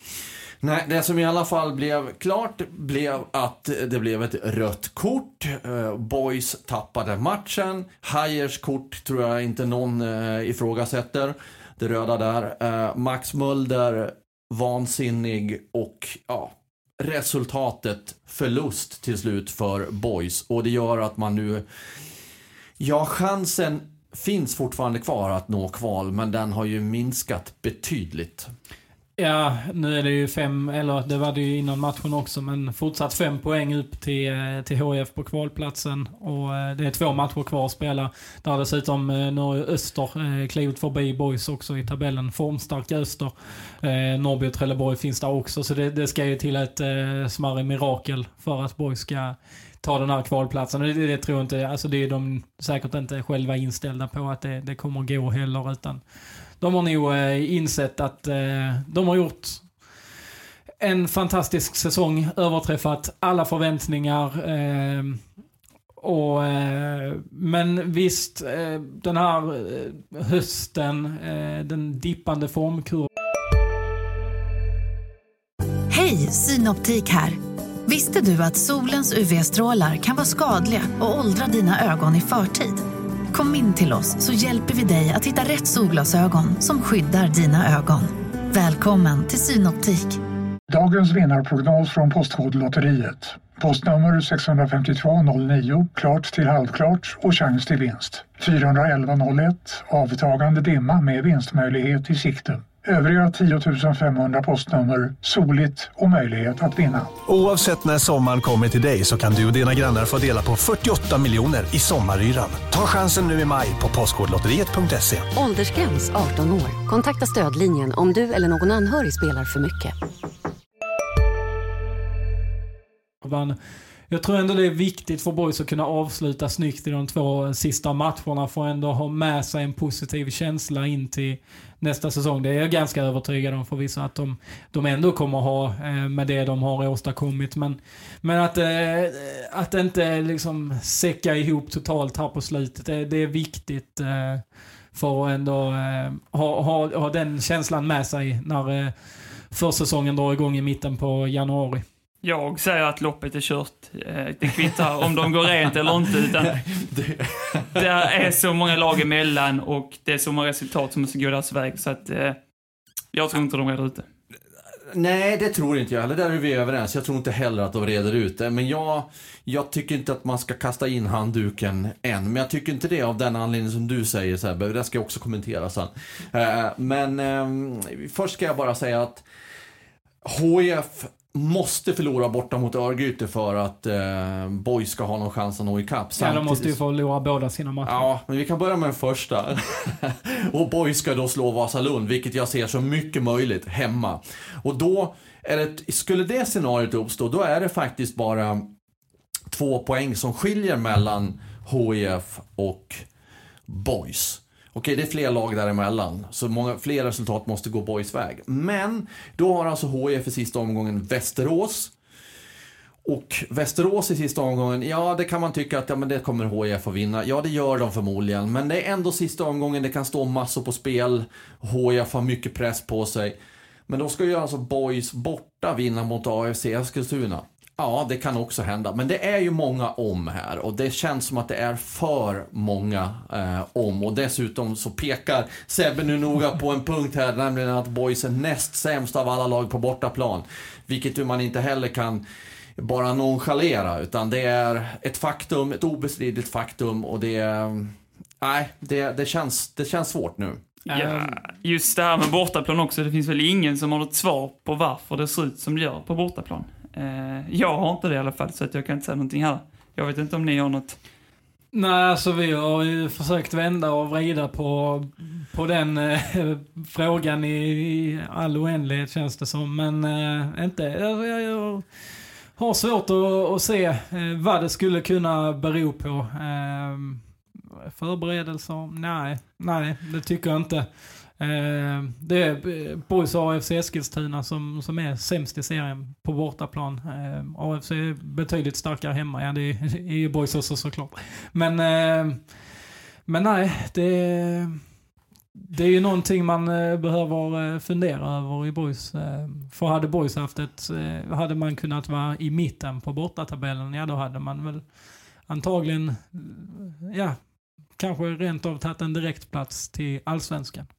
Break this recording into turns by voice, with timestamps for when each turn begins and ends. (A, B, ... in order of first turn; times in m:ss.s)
0:00.6-0:21.7 A
0:22.8-0:28.5 A
0:29.2-0:56.0 B
0:56.6-0:59.7 B
1:00.8-1:05.2 B
1:06.0-1:13.1 B
1:15.9-1:30.2 C
1:30.7-1:47.2 D
1:47.3-1:55.3 E
1:55.3-2:00.0 F
2:03.2-2:03.6 B
2:04.1-2:28.9 B
2:29.5-2:31.8 B
2:32.2-2:36.6 G
2:36.4-2:38.1 A
2:37.8-2:42.4 G
2:43.1-2:44.1 G
2:44.9-2:59.2 A
3:00.2-3:06.8 A
3:06.2-3:08.1 B
3:07.8-3:18.7 A
3:19.5-3:23.0 A
3:23.7-3:31.9 A
3:33.0-3:43.4 A
3:43.9-4:02.2 A
4:02.8-4:10.6 A
4:10.9-4:11.4 B
4:10.9-4:21.0 G
4:21.7-4:31.9 B
4:32.6-4:37.2 B
4:37.9-4:52.5 B
4:53.3-4:54.8 B
4:55.6-5:04.9 B
5:05.5-5:07.4 B
5:08.0-5:10.9 B